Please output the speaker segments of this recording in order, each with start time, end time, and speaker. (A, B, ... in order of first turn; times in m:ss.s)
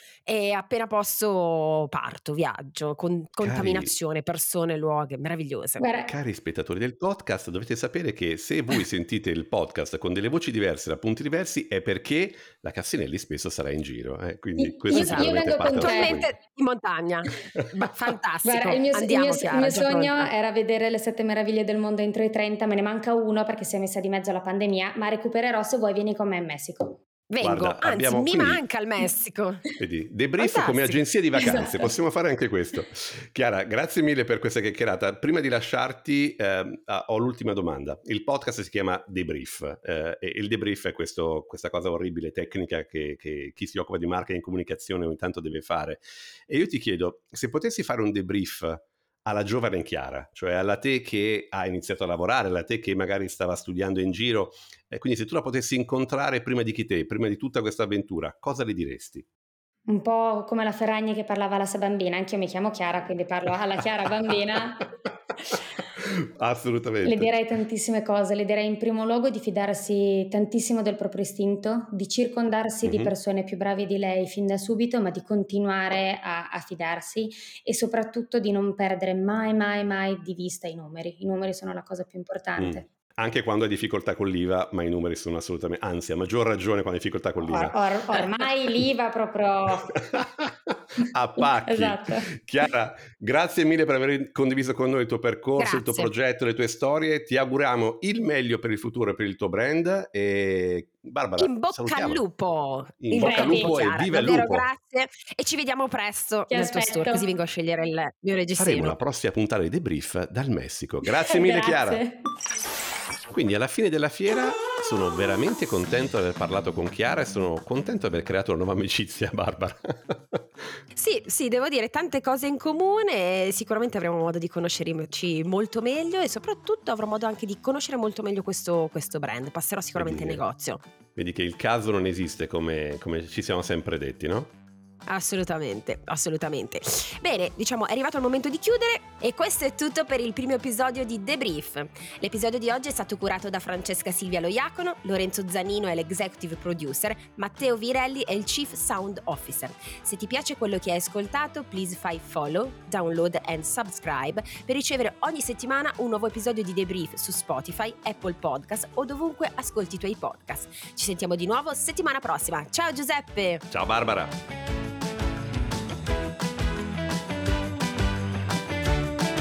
0:00.2-0:05.8 A
0:03.4-0:03.9 B
0:05.8-0:06.1 C
0:06.1-0:16.3 B
0:14.6-0:16.2 C
0:14.9-0:20.3 A
0:18.4-0:27.0 C
0:27.3-0:29.6 A
0:27.4-0:28.6 B
0:29.8-0:59.2 B
0:30.4-0:31.0 A
0:31.4-0:31.9 C
0:59.9-1:04.9 C
1:06.0-1:07.3 B
1:07.0-1:22.8 C
1:12.8-1:13.1 B
1:22.6-1:28.2 B
1:27.4-1:30.0 C
1:30.0-1:42.2 B
1:31.6-1:32.3 C
1:35.6-1:36.1 A
1:41.4-1:49.0 A
1:43.0-1:44.7 B
1:43.1-1:43.7 C
1:46.5-1:47.2 C
1:48.6-1:52.0 B
1:51.3-1:52.2 C
1:53.3-2:00.8 B
2:00.9-2:10.8 A
2:09.9-2:10.4 B
2:11.2-2:14.5 B
2:15.1-2:43.6 A
2:43.7-2:44.3 B